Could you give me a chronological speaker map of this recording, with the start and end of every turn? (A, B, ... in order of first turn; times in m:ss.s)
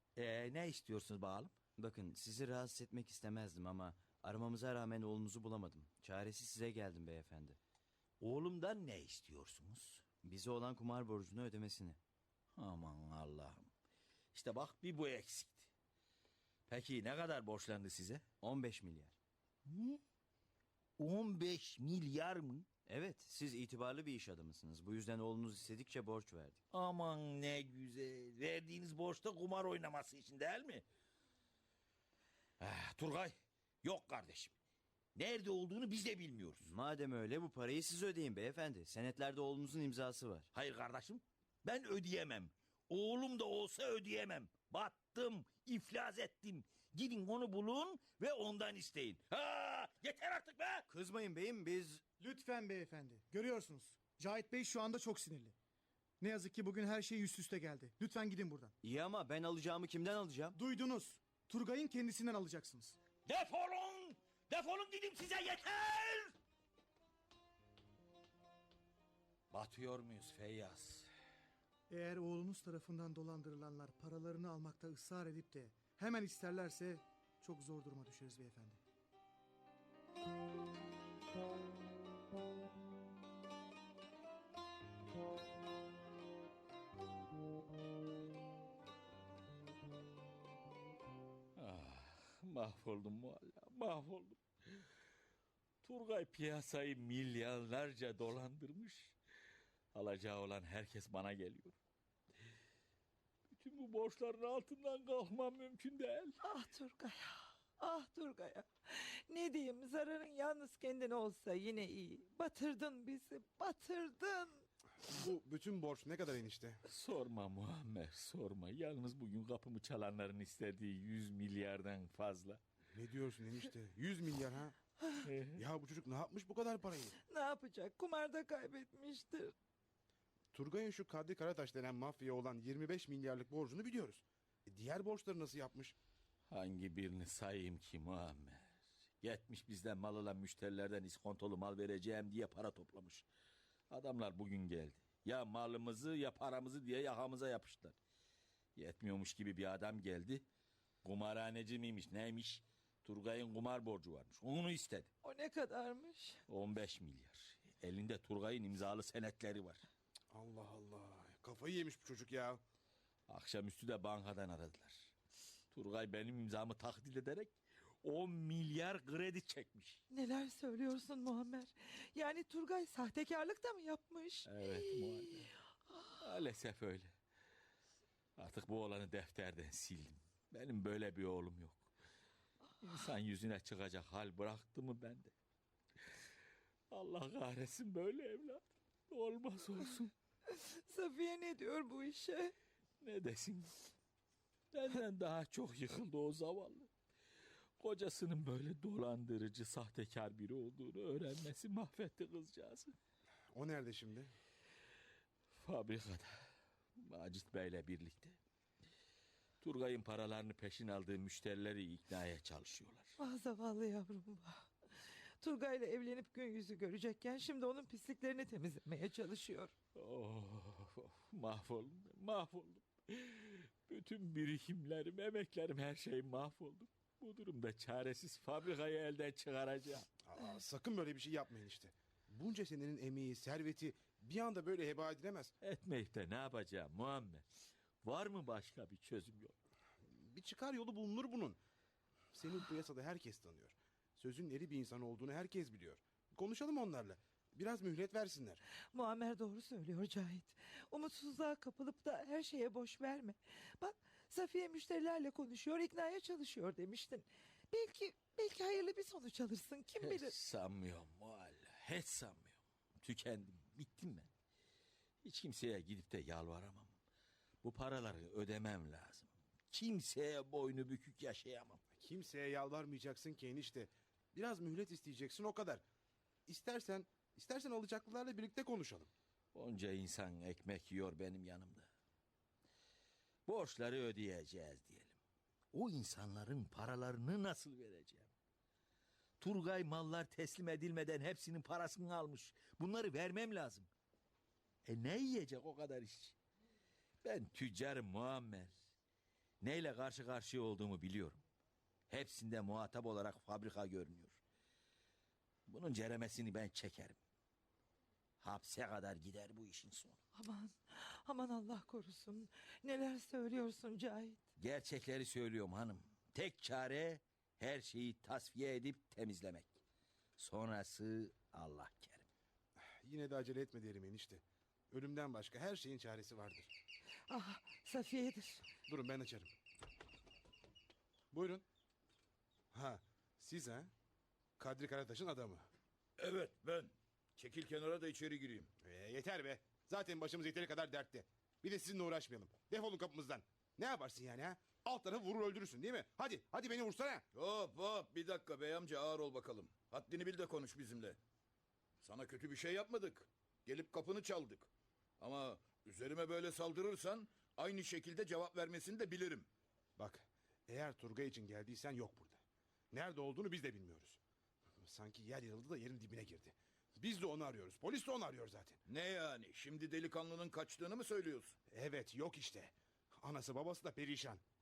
0:00.2-0:01.5 A
0:01.8-0:07.6 B
0:08.2-0:10.0 A
0:10.2-0:12.0 B
0:12.5-0:13.7 A
0:14.3-0:15.7 A
0:16.7-0:18.2 A
0:18.4-0:19.2 B
0:19.6-0:20.0 A
0:21.0-0:22.7 A
0:22.8-0:26.6 B
0:26.7-0:30.8 A
0:32.6-0:34.5 A
0:35.2-0:36.7 A
0:36.6-0:40.5 B
0:40.5-0:50.8 A
0:50.9-0:52.0 B
0:52.2-0:55.5 C
0:56.2-0:58.7 C
0:58.8-1:00.6 B
1:00.6-1:03.0 C
1:03.2-1:06.3 A
1:09.5-1:11.1 A
1:11.9-1:18.8 C
1:31.6-1:34.8 A
1:35.8-1:39.2 A
1:39.9-1:41.8 A
1:43.5-1:46.4 A
1:46.4-1:54.6 D
1:55.1-1:56.8 E
1:56.8-2:02.6 A
2:02.9-2:04.8 E
2:05.2-2:05.6 A
2:05.5-2:07.1 E
2:07.2-2:09.5 D
2:10.5-2:16.0 E
2:16.5-2:23.3 A
2:23.9-2:28.0 A
2:28.8-2:30.4 A
2:31.0-2:35.1 A
2:35.2-2:36.4 D
2:36.5-2:39.8 A
2:40.3-2:42.6 E
2:43.3-2:45.1 A
2:45.7-2:47.5 A
2:48.0-2:50.0 A
2:50.1-2:55.3 D
2:54.4-2:55.5 A
2:56.2-2:57.1 A
2:58.4-3:01.9 A
3:02.8-3:05.3 A
3:06.9-3:10.1 A
3:10.5-3:12.5 D
3:13.0-3:13.7 A
3:14.7-3:16.9 A
3:17.8-3:22.9 A
3:23.5-3:24.3 E
3:25.6-3:26.3 A
3:27.0-3:28.4 A
3:29.6-3:33.1 A
3:33.2-3:39.7 D
3:40.0-3:50.0 A
3:50.2-3:55.5 E
3:55.6-3:57.4 A
3:58.0-3:59.5 A
4:00.1-4:01.6 E
4:02.3-4:08.6 E
4:08.9-4:20.3 D
4:20.0-4:24.3 A
4:25.2-4:26.9 A
4:27.6-4:31.8 A
4:32.0-4:35.8 E
4:36.5-4:39.1 E
4:39.5-4:41.9 A
4:43.5-4:45.2 A
4:45.7-4:48.3 A
4:49.4-4:53.9 A
4:54.8-4:56.4 A
4:57.2-4:58.8 A
4:59.6-5:01.4 A
5:02.1-5:04.4 A
5:05.7-5:07.2 A
5:08.4-5:10.2 A
5:10.3-5:14.4 D
5:14.6-5:19.8 A
5:20.4-5:22.3 A
5:22.8-5:26.7 E
5:27.3-5:28.6 D
5:28.9-5:29.5 E
5:31.3-5:31.6 E
5:32.7-5:33.9 E
5:34.6-5:35.6 E
5:36.2-5:38.7 F
5:38.8-5:47.2 E
5:47.4-5:51.2 F
5:52.0-5:54.7 F
5:55.2-5:59.4 F
6:00.0-6:02.4 E
6:02.9-6:04.2 E
6:04.8-6:08.8 E
6:08.9-6:11.5 F
6:11.7-6:14.4 E